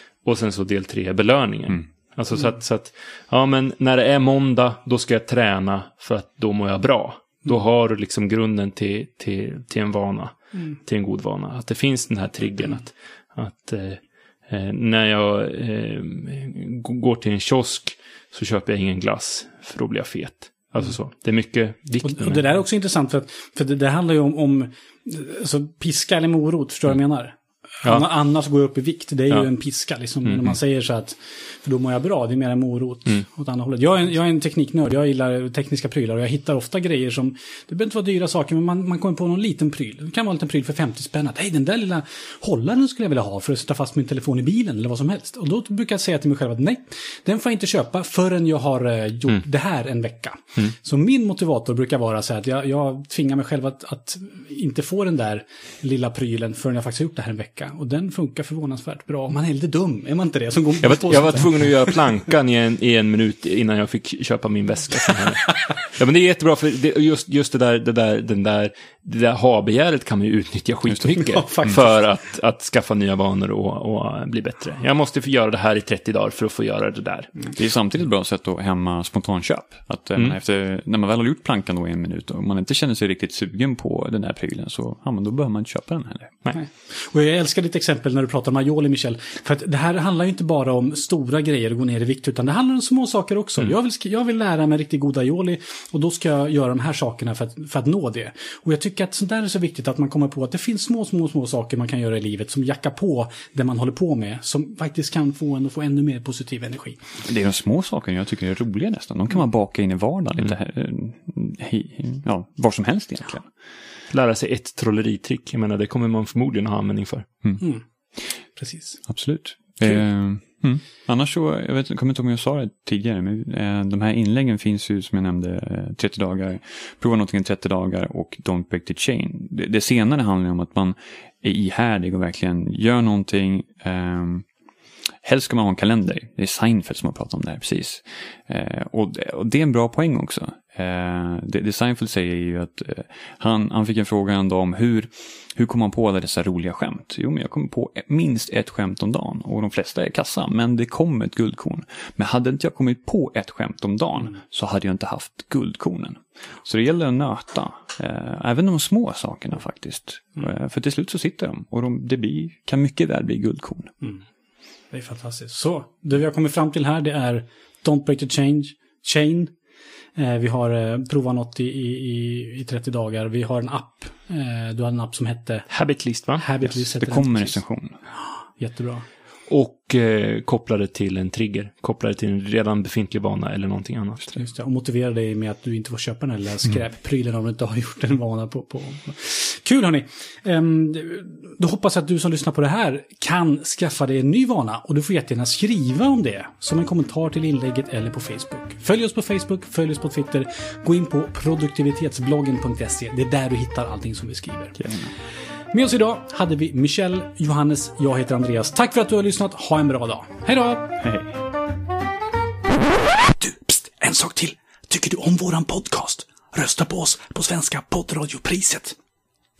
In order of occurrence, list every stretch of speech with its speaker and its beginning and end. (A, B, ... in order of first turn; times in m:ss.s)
0:00.2-0:22.5 A
0:22.0-1:02.0 B
0:30.2-0:30.5 A
1:00.8-1:17.3 A
1:11.2-1:12.1 B
1:17.5-1:26.3 C
1:26.5-1:47.0 B
1:47.2-1:53.5 C
1:54.1-1:57.3 A
1:58.5-1:59.0 B
1:59.0-2:14.4 C
2:15.2-2:43.9 C
2:44.9-2:49.5 B
2:50.2-2:55.7 B
2:55.7-2:56.4 A
2:56.3-2:57.6 B
2:56.6-2:58.0 C
2:58.6-2:59.0 B
2:59.5-3:04.4 A
3:04.3-3:24.9 B
3:24.8-3:25.1 C
3:25.7-3:31.0 B
3:31.0-3:31.3 C
3:33.3-3:39.0 B